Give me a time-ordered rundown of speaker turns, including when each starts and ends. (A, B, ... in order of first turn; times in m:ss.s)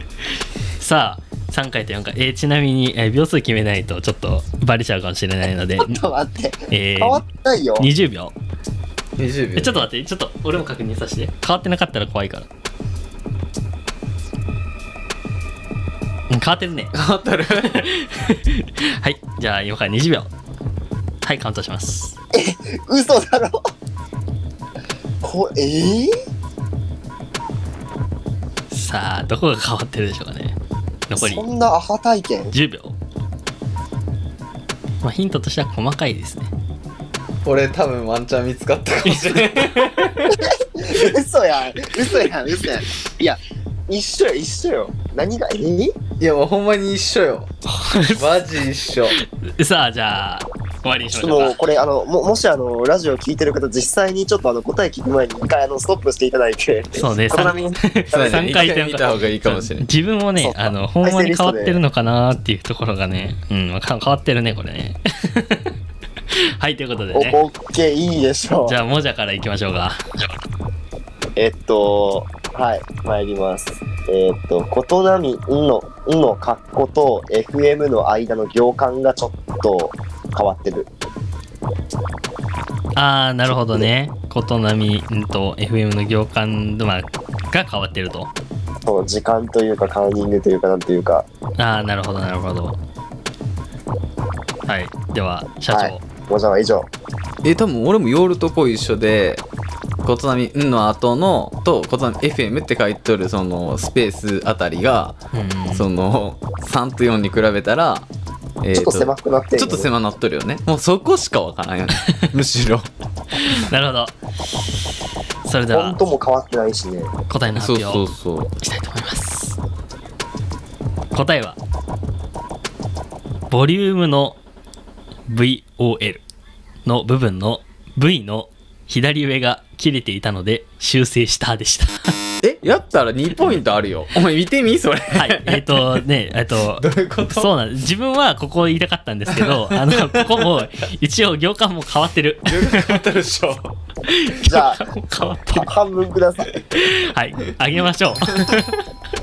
0:00.8-0:06.0 A
0:05.8-0:07.9 B
0:06.7-0:07.2 A
0:07.8-0:08.4 A
0:09.2-0:09.9 C
0:09.6-0:12.5 A
0:16.3-0:16.9 A
0:16.9-0:17.9 C
0:17.6-0:20.3 A
0:21.2-0:22.1 A
0:22.3-0:23.6 B
0:25.2-0:26.1 B
0:28.7-0:30.6 A
0:31.1-0:31.4 A
0:31.2-0:32.5 B
0:32.5-0:33.0 A
0:35.0-0:36.5 A
0:37.4-0:40.4 C
0:39.0-0:40.0 A
0:40.8-0:46.0 B
0:46.2-0:49.2 C
0:47.8-0:48.2 A
0:49.1-0:51.6 A
0:51.1-0:58.7 B
0:56.9-1:05.7 A
0:58.1-0:59.9 C
1:00.4-1:01.8 B
1:06.3-1:07.4 A
1:07.1-1:08.8 B
1:08.6-1:10.1 A
1:11.4-1:20.9 B
1:22.9-1:28.3 A
1:28.8-1:31.2 B
1:31.6-1:32.8 A
1:34.7-1:36.0 A
1:35.7-1:36.9 B
1:37.4-1:39.4 C
1:40.0-1:45.2 C
1:45.3-1:45.9 A
1:45.7-1:48.1 C
1:48.6-1:52.9 C
1:48.7-1:49.9 B
1:53.4-1:54.2 A
1:55.4-1:56.0 A
1:55.7-1:57.1 B
1:57.3-1:58.1 A
1:57.5-1:58.5 C
1:58.6-1:59.6 A
2:01.1-2:01.6 A
2:03.5-2:04.4 A
2:05.3-2:06.2 A
2:06.8-2:12.2 A
2:12.4-2:16.0 C
2:15.1-2:23.0 A
2:16.7-2:17.5 C
2:19.3-2:20.4 C
2:22.5-2:23.7 C
2:24.0-2:25.7 A
2:24.4-2:24.8 B
2:25.5-2:26.7 B
2:26.7-2:28.8 A